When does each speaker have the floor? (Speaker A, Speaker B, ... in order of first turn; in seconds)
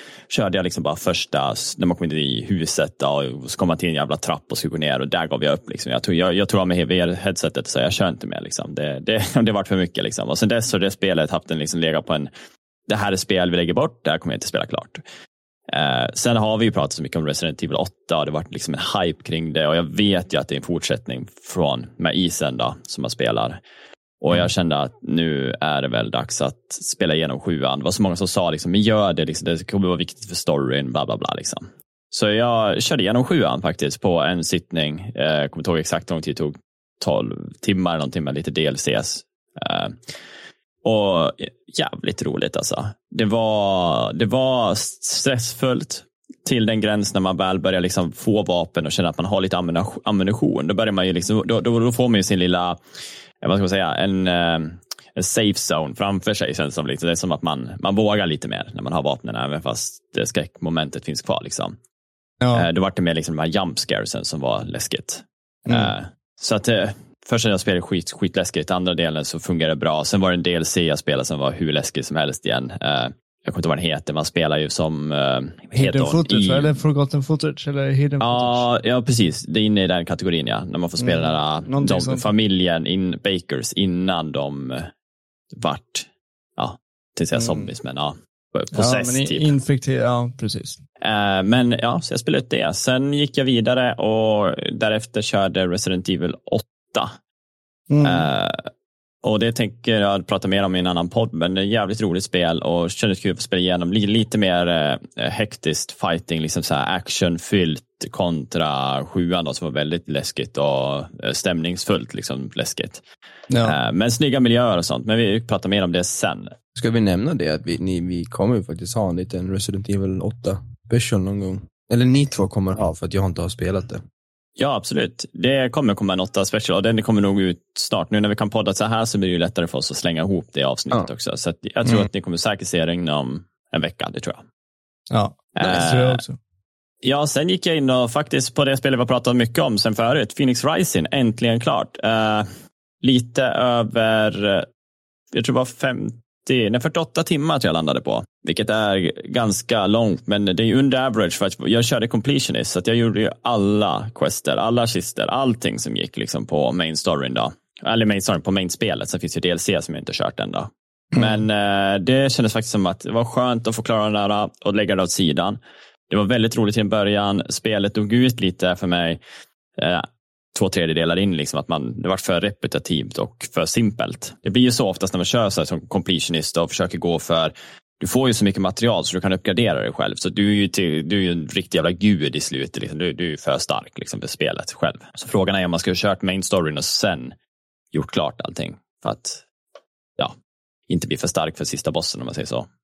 Speaker A: 0.3-12.3, 12.9-15.0, 15.7-23.6, 24.2-40.1, 40.8-52.8, 53.4-61.8, 62.5-76.8, 78.2-84.9, 85.5-89.5, 91.0-97.1, 98.0-98.7, 99.2-113.0, 113.6-116.5, 124.6-134.4, 135.6-136.2, 137.0-142.5, 143.0-144.7, 145.3-169.2, 169.8-187.3, 187.9-189.4, 190.9-192.7
Speaker B: 62.4-62.7, 65.7-65.9, 75.7-78.7, 81.0-82.3, 87.3-87.7, 88.7-90.8, 97.9-98.3, 113.5-113.8, 135.1-136.4, 161.1-161.4
Speaker C: 116.8-124.0